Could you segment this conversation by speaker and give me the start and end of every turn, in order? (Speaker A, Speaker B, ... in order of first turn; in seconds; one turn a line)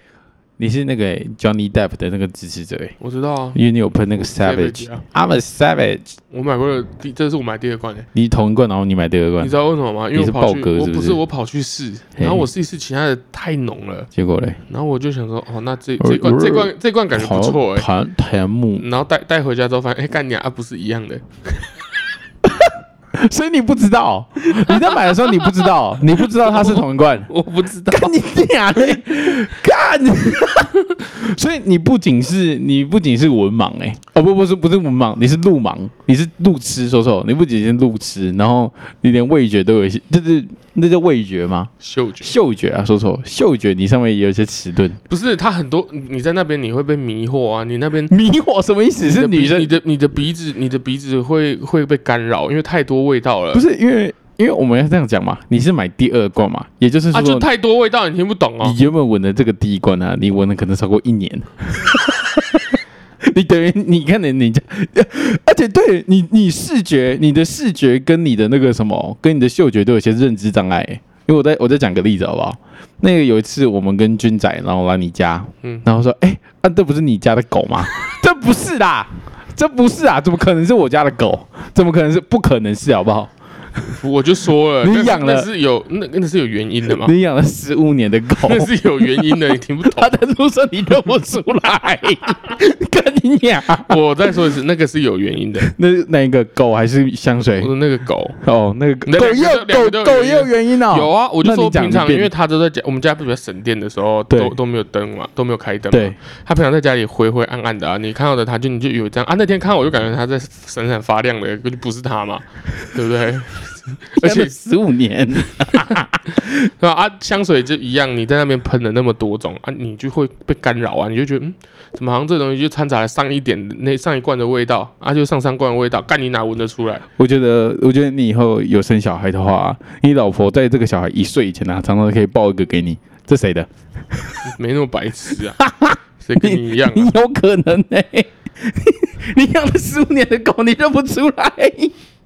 Speaker A: 0.6-3.0
Speaker B: 3.0-3.6
Speaker A: 3.5-6.2
Speaker B: 4.2-5.0
Speaker B: 6.3-8.1
Speaker A: 8.1-9.5
Speaker B: 9.4-14.1
Speaker A: 10.1-11.2
Speaker A: 12.2-12.5
Speaker A: 14.1-14.6
Speaker B: 14.7-17.9
Speaker A: 16.0-18.8
Speaker B: 18.7-21.7
Speaker A: 22.5-27.3
Speaker B: 24.5-28.1
Speaker A: 27.9-45.0
Speaker B: 28.7-29.4
Speaker B: 41.8-42.3
Speaker B: 45.1-48.1
Speaker A: 48.1-49.7
Speaker B: 49.0-53.6
Speaker A: 53.5-57.5
Speaker B: 57.1-58.8
Speaker A: 58.6-84.0
Speaker B: 84.0-87.1
Speaker A: 84.8-85.5
Speaker A: 86.9-94.0
Speaker B: 88.3-90.2
Speaker B: 93.8-95.7
Speaker A: 95.7-97.7
Speaker B: 97.6-98.4
Speaker A: 98.4-102.3
Speaker B: 99.0-114.5
Speaker A: 104.3-104.5
Speaker A: 105.9-106.2
Speaker A: 114.2-116.7
Speaker B: 116.6-127.0
Speaker A: 127.2-134.5
Speaker B: 134.4-135.6
Speaker A: 135.6-141.9
Speaker B: 136.2-137.1